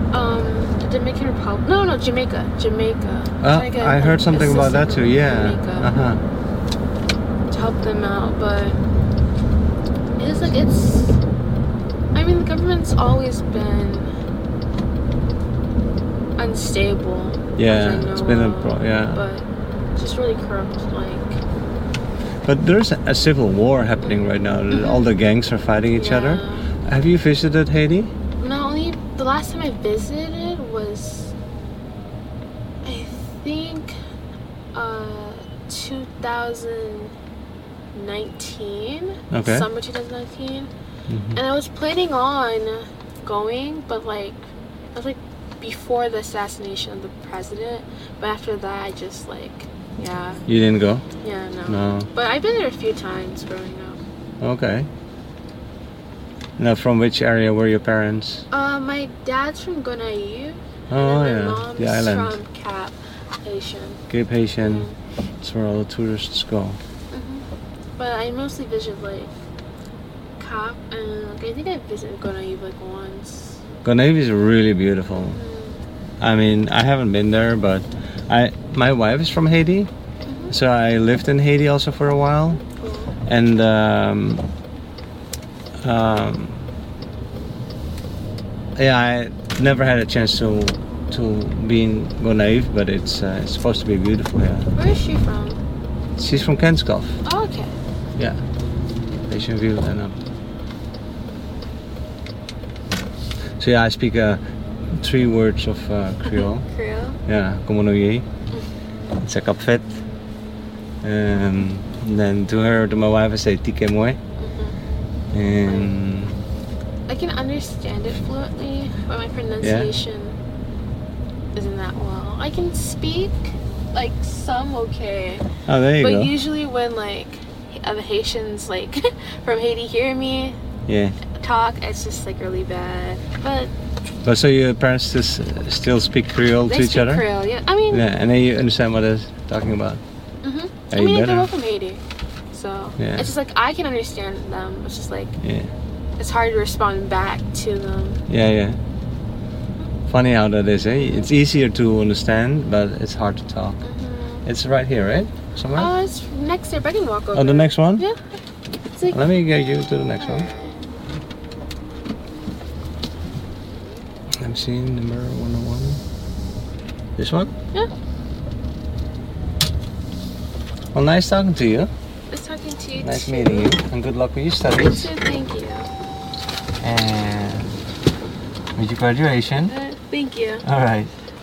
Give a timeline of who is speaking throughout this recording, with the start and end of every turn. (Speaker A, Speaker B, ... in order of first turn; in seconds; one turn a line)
Speaker A: 0.1-5.9
Speaker B: 3.4-6.2
Speaker A: 7.5-8.8
Speaker A: 10.2-11.2
Speaker A: 12.2-14.1
Speaker A: 16.4-21.4
Speaker B: 17.6-19.2
Speaker B: 22.4-28.1
Speaker A: 24.7-25.1
Speaker A: 25.9-26.7
Speaker A: 28.4-31.3
Speaker A: 32.8-34.0
Speaker A: 34.7-37.1
Speaker A: 37.9-40.7
Speaker B: 39.3-39.7
Speaker B: 41.1-41.4
Speaker A: 41.3-50.4
Speaker B: 50.5-51.0
Speaker A: 51.2-54.0
Speaker B: 51.7-52.1
Speaker B: 54.4-54.9
Speaker B: 56.6-58.5
Speaker A: 58.5-64.0
Speaker B: 60.9-62.4
Speaker B: 64.1-64.9
Speaker A: 64.6-65.0
Speaker B: 65.4-66.8
Speaker A: 67.1-67.5
Speaker A: 68.0-69.3
Speaker A: 70.4-73.6
Speaker B: 73.8-75.4
Speaker A: 75.3-75.8
Speaker B: 76.2-79.9
Speaker A: 80.3-80.5
Speaker B: 80.5-82.6
Speaker A: 82.6-83.2
Speaker B: 83.3-84.5
Speaker B: 85.8-86.6
Speaker B: 88.8-94.8
Speaker A: 94.8-95.6
Speaker B: 96.2-97.2
Speaker A: 97.2-97.7
Speaker B: 99.3-100.2
Speaker B: 103.6-104.4
Speaker B: 105.0-106.7
Speaker A: 106.2-107.2
Speaker B: 107.3-108.3
Speaker B: 109.2-109.9
Speaker B: 111.0-114.2
Speaker A: 114.4-114.8
Speaker B: 115.3-116.4
Speaker A: 115.7-115.9
Speaker A: 117.1-120.4
Speaker B: 119.6-119.9
Speaker A: 121.5-125.5
Speaker B: 125.7-126.3
Speaker A: 126.0-130.6
Speaker B: 130.9-131.2
Speaker A: 131.3-133.7
Speaker B: 134.2-137.3
Speaker A: 136.7-138.1
Speaker B: 137.9-140.0
Speaker A: 140.4-145.4
Speaker B: 140.9-141.5
Speaker B: 143.0-143.3
Speaker B: 145.4-145.7
Speaker A: 146.2-148.2
Speaker B: 148.3-148.8
Speaker B: 150.1-153.8
Speaker A: 151.0-151.3
Speaker A: 153.8-154.4
Speaker B: 154.4-155.9
Speaker A: 155.7-158.2
Speaker B: 157.3-158.1
Speaker B: 159.1-160.5
Speaker A: 160.2-160.8
Speaker B: 164.4-166.0
Speaker B: 167.2-167.5
Speaker B: 170.9-171.9
Speaker A: 172.3-173.7
Speaker B: 173.0-175.1
Speaker A: 174.8-175.9
Speaker B: 176.8-177.7
Speaker B: 178.8-179.7
Speaker A: 179.7-180.7
Speaker B: 180.6-181.1